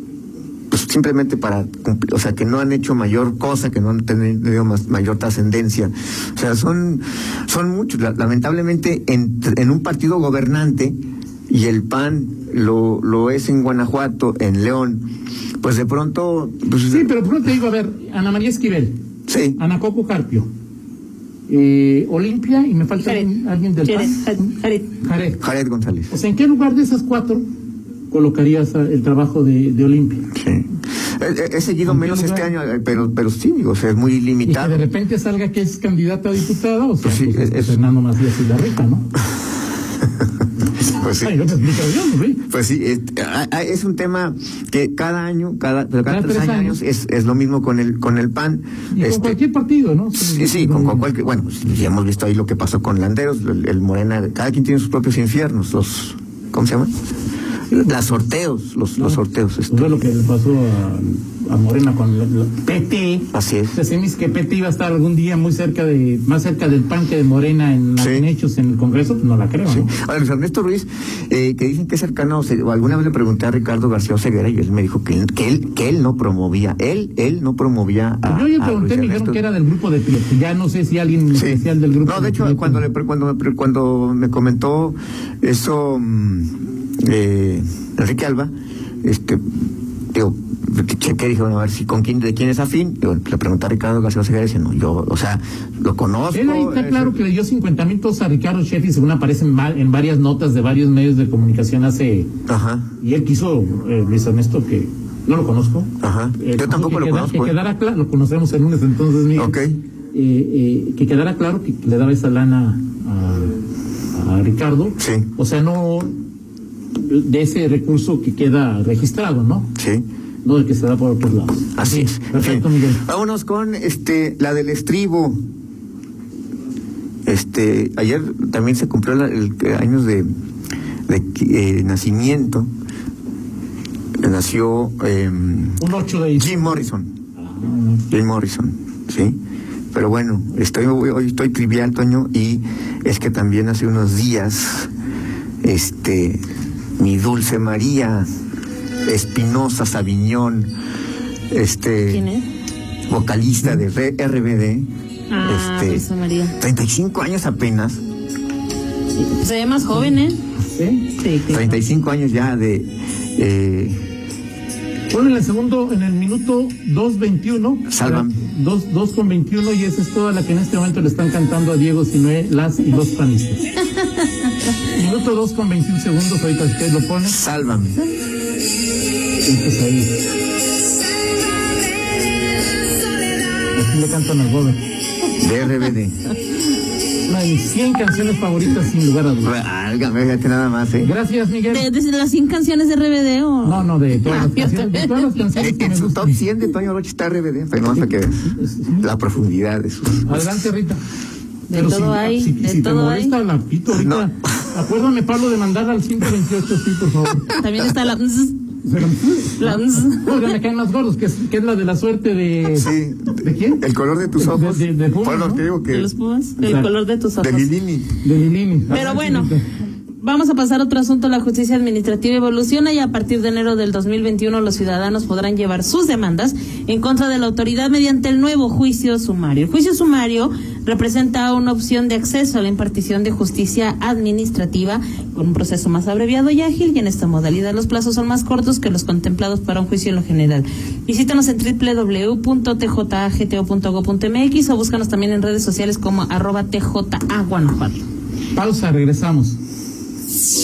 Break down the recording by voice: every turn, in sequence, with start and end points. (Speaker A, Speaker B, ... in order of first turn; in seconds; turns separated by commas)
Speaker A: 0.7-11.0, Speaker A: 11.5-15.0, Speaker A: 15.6-17.1, Speaker B: 16.9-18.9, Speaker A: 19.3-19.6, Speaker B: 19.6-20.5, Speaker B: 21.5-25.4, Speaker C: 23.9-24.9, Speaker A: 25.4-26.1, Speaker B: 26.1-27.4, Speaker B: 28.1-30.2, Speaker A: 30.3-34.8, Speaker B: 31.9-32.5, Speaker B: 34.5-39.1, Speaker A: 37.0-37.8, Speaker A: 40.8-41.5, Speaker B: 41.2-42.4, Speaker A: 42.5-49.4, Speaker B: 46.1-46.8, Speaker B: 48.9-51.1, Speaker A: 50.2-56.9, Speaker A: 57.7-60.1, Speaker B: 59.0-69.9, Speaker A: 63.3-63.8, Speaker A: 68.0-68.2, Speaker A: 69.6-79.4, Speaker B: 78.2-82.9, Speaker A: 81.3-88.5, Speaker A: 89.0-89.4, Speaker A: 90.1-97.2, Speaker B: 96.3-102.3, Speaker A: 102.5-102.9, Speaker B: 103.0-109.6, Speaker A: 106.0-107.6, Speaker A: 109.3-109.8, Speaker B: 110.1-113.5, Speaker B: 114.1-116.1, Speaker A: 115.0-115.3, Speaker B: 117.0-119.7, Speaker A: 119.8-120.0, Speaker B: 120.4-123.0, Speaker A: 121.8-125.4, Speaker A: 127.2-130.3, Speaker A: 131.1-132.7, Speaker A: 134.2-137.1, Speaker B: 135.8-136.8, Speaker B: 137.4-138.0, Speaker A: 138.1-139.3, Speaker A: 139.9-144.9, Speaker A: 145.6-146.4, Speaker A: 147.0-148.3, Speaker A: 149.1-150.7, Speaker A: 151.5-152.2, Speaker C: 152.1-152.4, Speaker A: 153.1-154.9, Speaker C: 155.3-156.6, Speaker A: 155.4-156.1, Speaker A: 156.6-158.0, Speaker C: 159.2-160.4, Speaker B: 160.8-161.1, Speaker C: 161.1-161.8, Speaker A: 161.5-164.0, Speaker B: 165.1-173.7, Speaker A: 167.9-168.4, Speaker B: 174.9-177.4, Speaker A: 177.2-178.0, Speaker B: 179.4-180.2, Speaker B: 183.7-184.8, Speaker A: 185.4-186.2, Speaker B: 187.2-189.5, Speaker A: 189.4-191.1, Speaker B: 191.0-191.9, Speaker C: 191.7-195.1, Speaker B: 193.6-196.4, Speaker A: 195.5-200.7, Speaker B: 198.4-199.1, Speaker B: 200.2-201.0, Speaker C: 201.7-203.3, Speaker B: 201.7-207.6, Speaker A: 203.9-204.3, Speaker C: 207.5-208.6, Speaker B: 208.8-215.7, Speaker C: 209.6-210.3, Speaker A: 212.7-216.1, Speaker C: 215.9-217.7, Speaker B: 216.6-216.9, Speaker A: 217.4-218.1, Speaker B: 218.2-219.6, Speaker C: 218.9-219.5, Speaker C: 220.2-248.0, Speaker B: 248.5-249.6